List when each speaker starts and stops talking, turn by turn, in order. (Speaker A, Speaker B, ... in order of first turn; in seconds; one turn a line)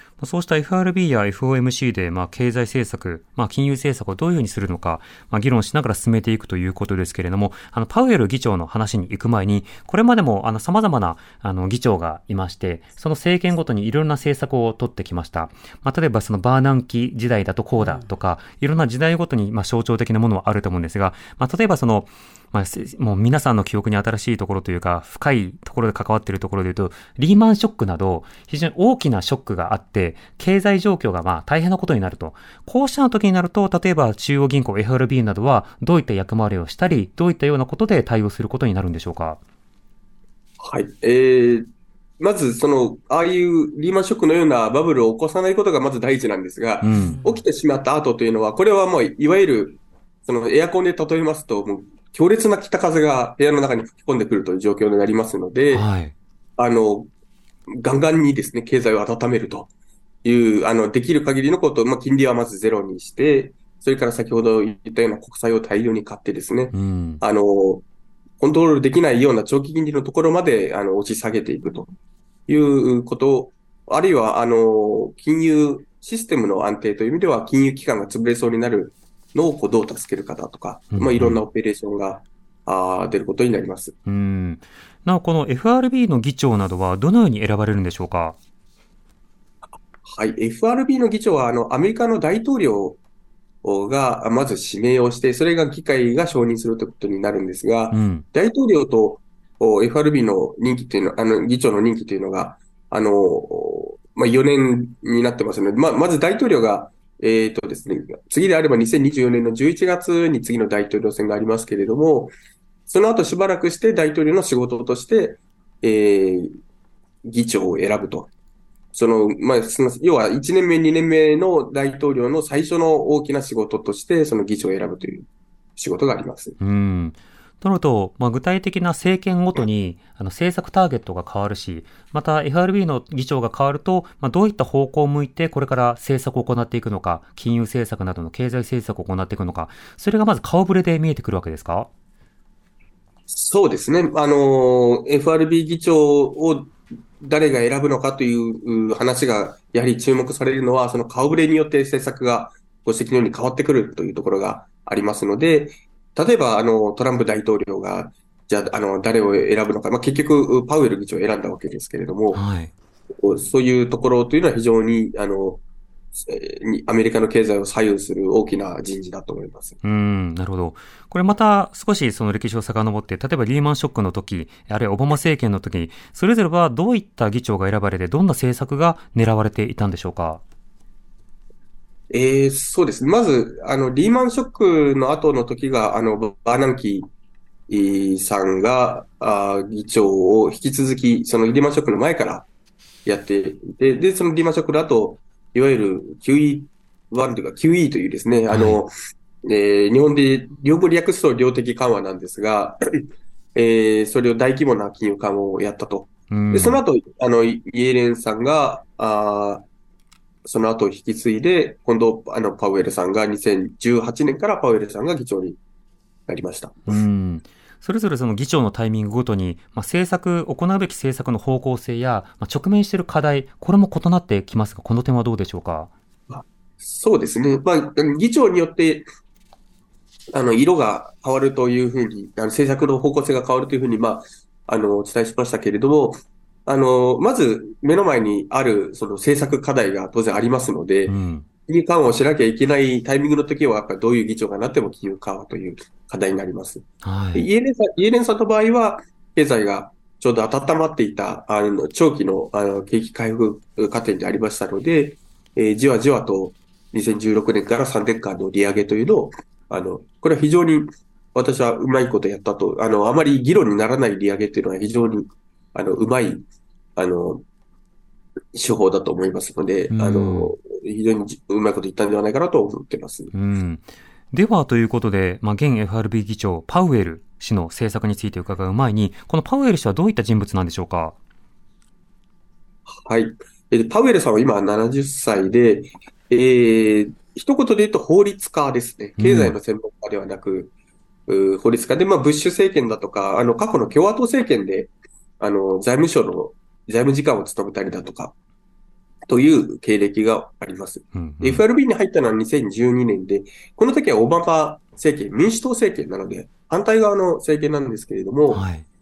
Speaker A: 0.2-39.4
Speaker B: 40.6-41.7
Speaker B: 42.2-55.9
Speaker A: 46.8-47.2
Speaker A: 55.7-56.1
Speaker B: 56.6-57.1
Speaker B: 57.7-59.7
Speaker B: 60.2-67.8
Speaker A: 66.7-67.2
Speaker B: 68.4-71.9
Speaker B: 72.5-84.0
Speaker A: 80.9-81.4
Speaker A: 84.1-88.4
Speaker B: 90.1-93.0
Speaker B: 93.6-112.3
Speaker A: 97.9-98.3
Speaker B: 112.9-116.6
Speaker B: 117.2-118.3
Speaker B: 118.9-126.6
Speaker A: 126.6-141.9
Speaker B: 143.3-162.4
Speaker A: 162.3-162.7
Speaker B: 163.1-165.6
Speaker B: 166.2-169.8
Speaker A: 169.8-180.4
Speaker B: 182.1-187.1
Speaker B: 187.7-192.5
Speaker B: 193.1-209.7
Speaker A: 198.5-198.8
Speaker A: 206.3-206.8
Speaker B: 210.4-215.6
Speaker B: 216.3-217.0
Speaker A: 216.9-225.9
Speaker B: 226.3-229.1
Speaker B: 230.3-266.4
Speaker A: 241.1-241.5
Speaker A: 247.0-247.5
Speaker B: 267.0-267.4
Speaker B: 268.5-273.3
Speaker A: 269.9-270.5
Speaker A: 273.3-281.2
Speaker B: 282.9-290.7
Speaker A: 289.2-289.6
Speaker B: 291.3-298.4
Speaker B: 299.3-308.6
Speaker A: 301.1-301.6
Speaker A: 308.5-308.9